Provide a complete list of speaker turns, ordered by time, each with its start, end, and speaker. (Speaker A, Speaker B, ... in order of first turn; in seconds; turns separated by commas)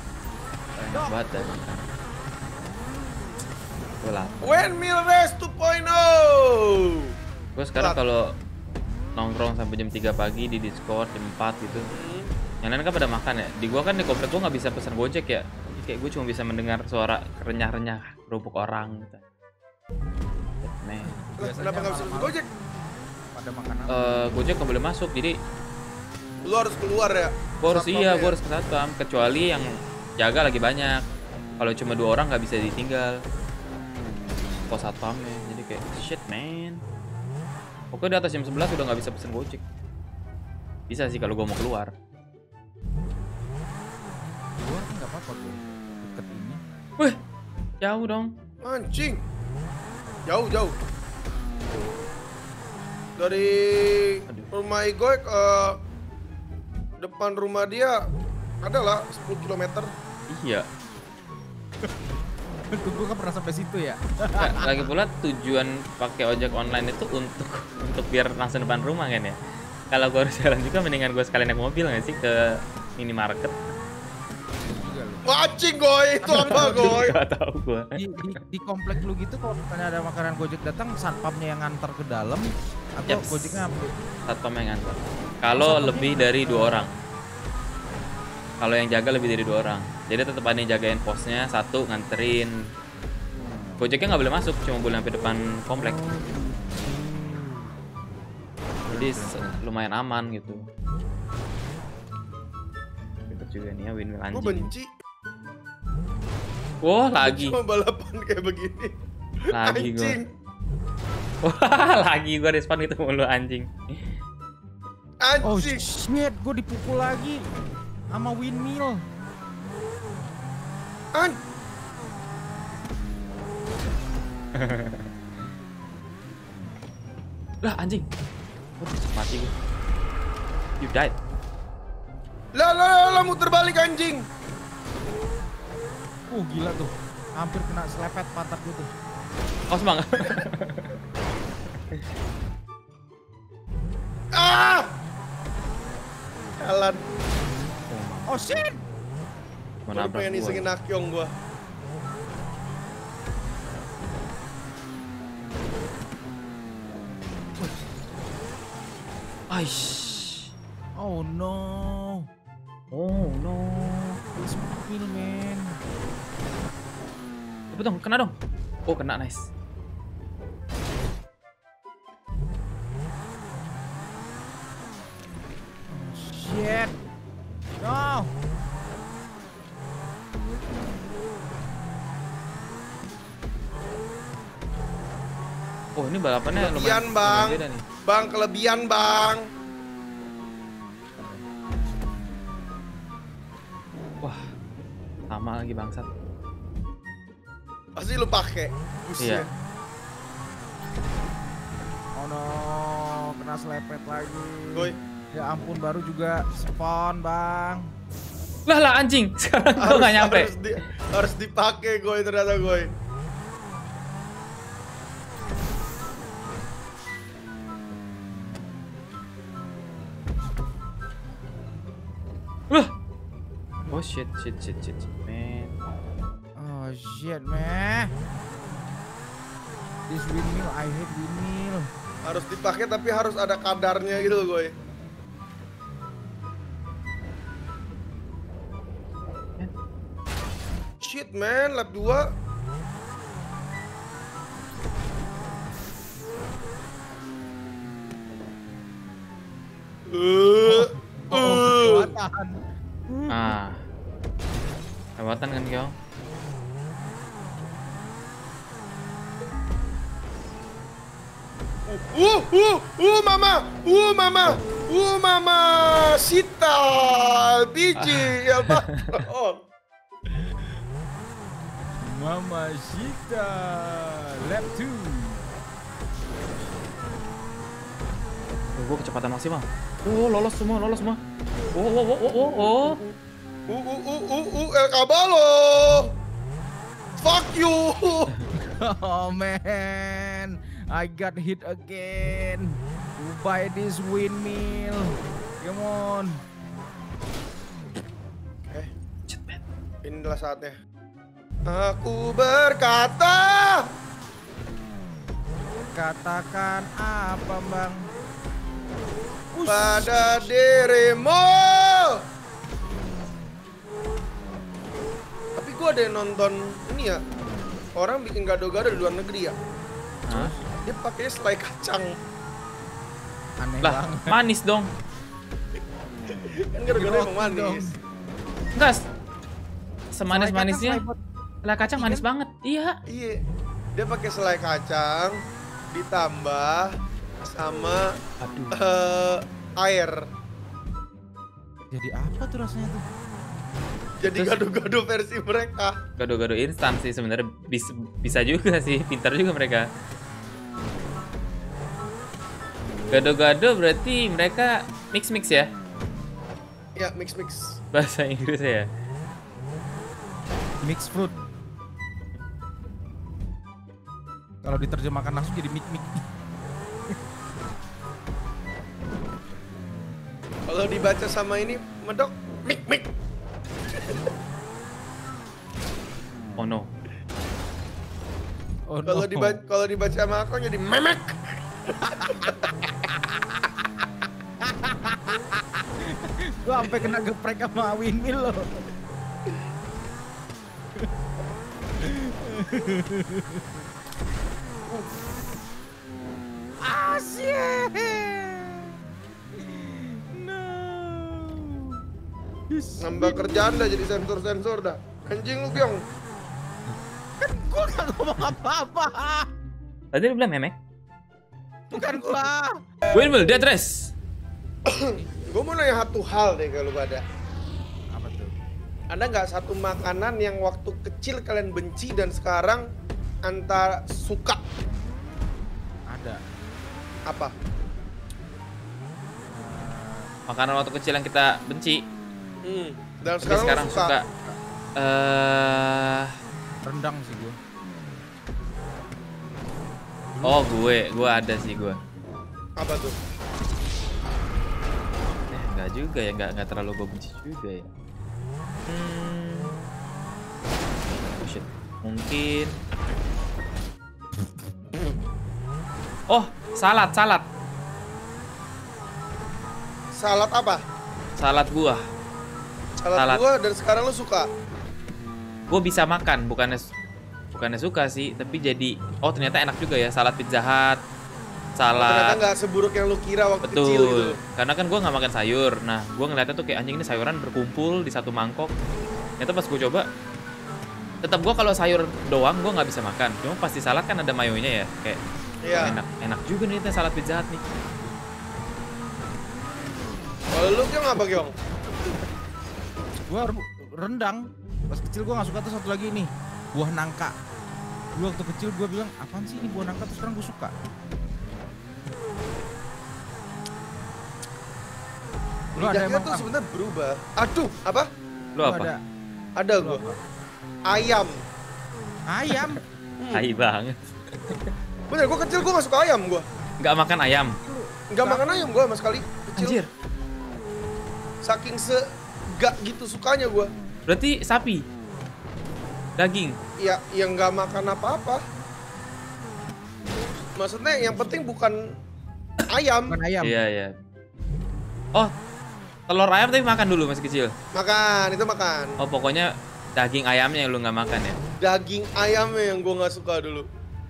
Speaker A: 0.8-1.4, Speaker B: 0.9-1.9, Speaker B: 4.0-4.6, Speaker C: 4.4-7.0, Speaker B: 7.5-8.3, Speaker B: 9.2-11.9, Speaker C: 11.9-12.3, Speaker B: 12.6-19.2, Speaker B: 20.6-21.1, Speaker A: 21.1-22.4, Speaker C: 21.4-22.5, Speaker A: 23.4-24.3, Speaker B: 23.9-25.4, Speaker C: 26.4-28.4, Speaker B: 27.6-31.0, Speaker B: 31.6-33.2, Speaker B: 34.7-36.8, Speaker B: 37.9-39.6, Speaker B: 40.9-41.9, Speaker A: 44.6-46.6, Speaker B: 47.8-48.3, Speaker C: 48.6-49.2, Speaker C: 50.3-50.7, Speaker C: 53.2-55.8, Speaker C: 57.0-58.0, Speaker C: 58.6-59.9, Speaker B: 60.3-60.7, Speaker A: 62.7-64.9, Speaker B: 64.4-69.3, Speaker B: 69.9-72.3, Speaker B: 73.0-73.5, Speaker A: 74.7-75.2, Speaker C: 75.3-77.2, Speaker A: 76.2-77.1, Speaker B: 76.3-77.9, Speaker A: 78.0-83.9, Speaker B: 83.1-83.6, Speaker B: 84.3-86.9, Speaker A: 85.6-86.9, Speaker B: 88.6-92.5, Speaker B: 93.8-96.0, Speaker A: 95.8-97.7, Speaker A: 98.8-99.6, Speaker B: 98.9-100.7, Speaker B: 103.3-104.7, Speaker C: 104.3-104.9, Speaker B: 106.8-107.6, Speaker C: 107.2-108.9, Speaker B: 109.5-110.2, Speaker C: 109.6-110.2, Speaker B: 111.4-113.7, Speaker C: 115.2-115.8, Speaker A: 115.4-117.4, Speaker A: 118.1-119.0, Speaker B: 124.5-125.1, Speaker B: 127.6-128.1, Speaker B: 128.8-129.5, Speaker B: 130.8-131.2, Speaker C: 132.6-134.2, Speaker A: 136.3-138.9, Speaker B: 139.7-140.9, Speaker C: 144.4-144.9, Speaker C: 146.6-147.0, Speaker B: 147.9-148.4, Speaker A: 148.3-148.8, Speaker C: 149.9-151.3, Speaker B: 149.9-150.7, Speaker B: 159.5-160.5, Speaker A: 161.0-162.2, Speaker B: 162.9-164.2, Speaker A: 164.4-165.8, Speaker B: 167.7-168.3, Speaker B: 168.9-169.5, Speaker A: 175.9-176.9, Speaker A: 177.8-178.3, Speaker B: 186.0-187.8, Speaker C: 186.5-189.4, Speaker B: 195.3-196.1, Speaker C: 198.0-199.5, Speaker B: 199.2-199.5, Speaker A: 202.2-207.8, Speaker B: 208.7-210.5, Speaker C: 209.8-212.9, Speaker B: 223.9-225.7, Speaker A: 226.6-228.1, Speaker A: 230.1-231.9, Speaker C: 232.2-234.7, Speaker C: 241.0-242.2, Speaker C: 250.1-252.1, Speaker A: 250.7-252.6, Speaker A: 253.1-253.6, Speaker B: 253.3-253.8, Speaker B: 255.2-255.9, Speaker C: 261.9-269.6, Speaker B: 268.0-268.3, Speaker A: 272.0-275.4, Speaker B: 278.8-281.2, Speaker B: 281.8-283.0, Speaker C: 282.3-283.1, Speaker C: 283.7-286.0, Speaker C: 287.2-288.3, Speaker A: 288.8-295.1, Speaker A: 295.6-296.4, Speaker B: 299.3-299.6, Speaker C: 300.0-300.8, Speaker C: 301.7-303.8, Speaker A: 305.7-308.0, Speaker A: 309.5-310.5, Speaker C: 309.7-312.1, Speaker C: 315.6-317.2, Speaker C: 318.0-319.6, Speaker A: 320.3-320.6, Speaker B: 320.3-320.5, Speaker C: 320.9-322.1, Speaker A: 323.6-324.4, Speaker B: 323.8-324.9, Speaker C: 326.7-327.9, Speaker A: 326.9-328.0, Speaker B: 330.1-331.0, Speaker A: 330.3-331.2, Speaker B: 331.6-332.9, Speaker A: 331.8-332.2, Speaker C: 333.1-333.4, Speaker C: 334.0-335.4, Speaker C: 335.9-336.8, Speaker C: 337.5-338.0, Speaker B: 338.4-338.8, Speaker C: 338.8-340.2, Speaker A: 341.9-343.0, Speaker C: 344.2-345.9, Speaker B: 344.3-344.7, Speaker B: 346.2-349.9, Speaker B: 353.1-355.7, Speaker C: 357.0-357.7, Speaker B: 357.9-358.9, Speaker A: 360.8-361.3, Speaker A: 364.6-366.2, Speaker C: 370.7-373.1, Speaker B: 376.6-376.9, Speaker A: 378.9-379.6, Speaker C: 379.1-381.3, Speaker A: 382.0-383.6, Speaker C: 382.2-382.7, Speaker A: 384.6-385.8, Speaker A: 386.6-388.6, Speaker A: 392.0-393.7, Speaker A: 396.8-398.9, Speaker A: 399.6-402.0, Speaker A: 402.7-404.1, Speaker C: 403.0-406.0, Speaker A: 407.4-409.5, Speaker B: 410.1-410.8, Speaker C: 411.9-412.4, Speaker A: 411.9-412.7, Speaker B: 413.1-414.1, Speaker C: 414.9-417.2, Speaker A: 418.1-418.5, Speaker C: 419.1-422.8, Speaker C: 423.5-424.6, Speaker A: 426.1-426.4, Speaker A: 429.5-430.3, Speaker B: 430.5-432.0, Speaker C: 432.7-434.1, Speaker B: 433.4-434.2, Speaker B: 435.0-436.3, Speaker A: 436.8-437.6, Speaker A: 440.3-440.7, Speaker B: 440.4-442.0, Speaker C: 442.8-443.2, Speaker B: 445.5-447.9, Speaker B: 448.9-449.8, Speaker B: 451.4-452.7, Speaker B: 456.3-457.4, Speaker C: 460.1-460.8, Speaker B: 461.4-462.0, Speaker C: 463.0-464.5, Speaker B: 463.1-463.4, Speaker B: 465.7-466.9, Speaker B: 467.5-471.0, Speaker B: 471.8-472.4, Speaker C: 472.0-474.4, Speaker B: 473.6-478.7, Speaker B: 479.4-480.1, Speaker B: 481.2-485.2, Speaker C: 485.6-486.0, Speaker B: 485.7-487.6, Speaker C: 490.5-491.5, Speaker A: 491.2-492.2, Speaker A: 493.3-494.4, Speaker A: 494.9-497.3, Speaker A: 498.2-500.7, Speaker A: 505.8-506.5, Speaker C: 505.8-508.1, Speaker B: 508.6-508.9, Speaker A: 508.6-509.0, Speaker C: 509.6-510.0, Speaker A: 509.8-510.2, Speaker C: 510.9-511.3, Speaker A: 512.3-512.8, Speaker B: 513.3-514.7, Speaker C: 515.1-516.5, Speaker B: 516.8-517.6, Speaker A: 517.6-518.5, Speaker C: 518.1-519.8, Speaker B: 519.6-519.9, Speaker C: 521.5-522.0, Speaker C: 522.6-523.7, Speaker B: 524.1-524.8, Speaker B: 526.2-526.6, Speaker C: 526.8-528.4, Speaker C: 530.6-531.8, Speaker C: 532.7-533.2, Speaker A: 533.1-533.5, Speaker B: 533.4-533.9, Speaker B: 536.1-537.5, Speaker C: 537.8-539.0, Speaker B: 539.0-541.4, Speaker C: 541.6-543.7